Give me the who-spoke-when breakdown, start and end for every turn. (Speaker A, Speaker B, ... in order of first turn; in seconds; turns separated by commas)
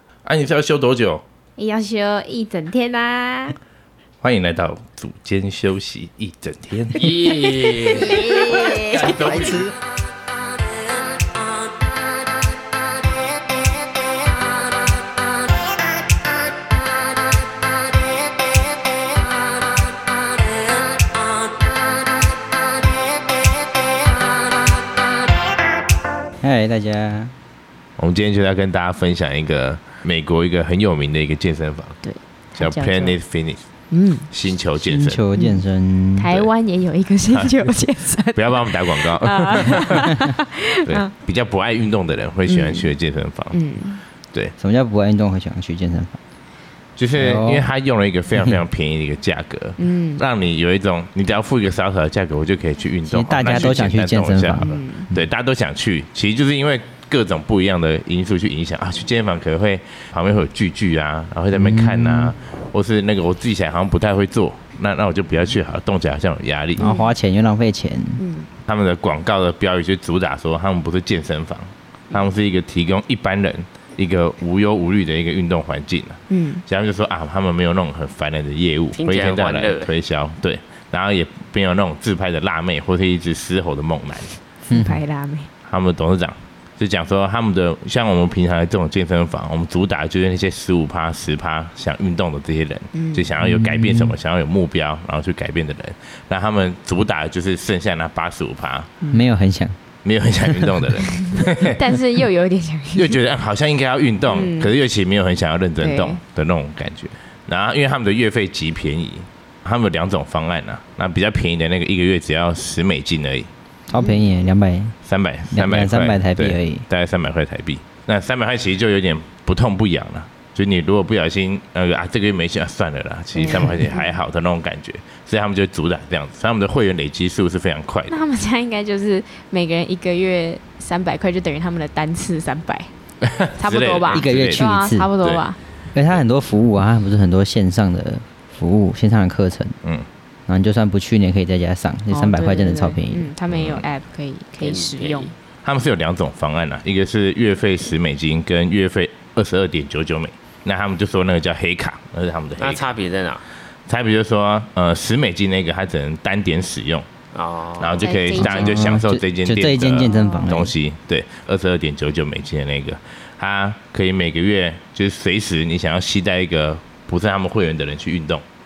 Speaker A: 0.2-1.2, Speaker B: 1.6-3.5, Speaker A: 4.2-7.1, Speaker C: 7.0-9.6, Speaker B: 7.9-9.0, Speaker D: 8.7-9.7, Speaker A: 9.0-9.5, Speaker D: 26.4-27.3, Speaker A: 28.0-32.0, Speaker B: 32.0-33.2, Speaker A: 32.5-33.6, Speaker B: 33.9-34.3, Speaker A: 34.3-35.2, Speaker D: 34.8-36.3, Speaker B: 35.3-35.6, Speaker B: 36.1-41.1, Speaker A: 38.3-40.3, Speaker A: 40.8-43.5, Speaker B: 42.5-42.9, Speaker B: 43.5-44.0, Speaker D: 44.6-46.2, Speaker A: 47.0-66.8, Speaker D: 47.1-47.6, Speaker D: 48.4-48.6, Speaker B: 49.8-50.2, Speaker D: 53.0-55.2, Speaker B: 54.6-55.1, Speaker D: 61.5-62.3, Speaker D: 66.8-68.2, Speaker B: 66.8-67.1, Speaker B: 68.2-68.5, Speaker A: 68.7-84.3, Speaker B: 76.3-76.6, Speaker C: 78.9-79.9, Speaker B: 84.7-85.5, Speaker D: 84.7-85.0, Speaker A: 85.7-98.9, Speaker B: 92.9-93.3, Speaker D: 93.4-94.2, Speaker D: 99.1-99.8, Speaker A: 100.0-101.8, Speaker D: 100.5-100.8, Speaker B: 101.1-103.2, Speaker A: 102.9-113.5, Speaker B: 104.3-104.7, Speaker B: 105.8-106.2, Speaker D: 113.9-115.0, Speaker B: 113.9-114.2, Speaker A: 115.0-128.1, Speaker D: 115.5-116.8, Speaker B: 123.3-124.1, Speaker B: 128.1-132.9, Speaker A: 133.2-134.6, Speaker B: 133.6-135.6, Speaker D: 134.1-135.1, Speaker D: 135.9-139.8, Speaker D: 140.5-143.3, Speaker B: 142.1-145.3, Speaker A: 143.5-143.8, Speaker C: 144.6-145.3, Speaker A: 145.6-152.9, Speaker C: 152.6-153.4, Speaker A: 153.9-157.1, Speaker C: 157.3-158.1, Speaker A: 157.8-168.4, Speaker B: 158.0-158.9, Speaker D: 158.4-160.7, Speaker B: 160.0-160.6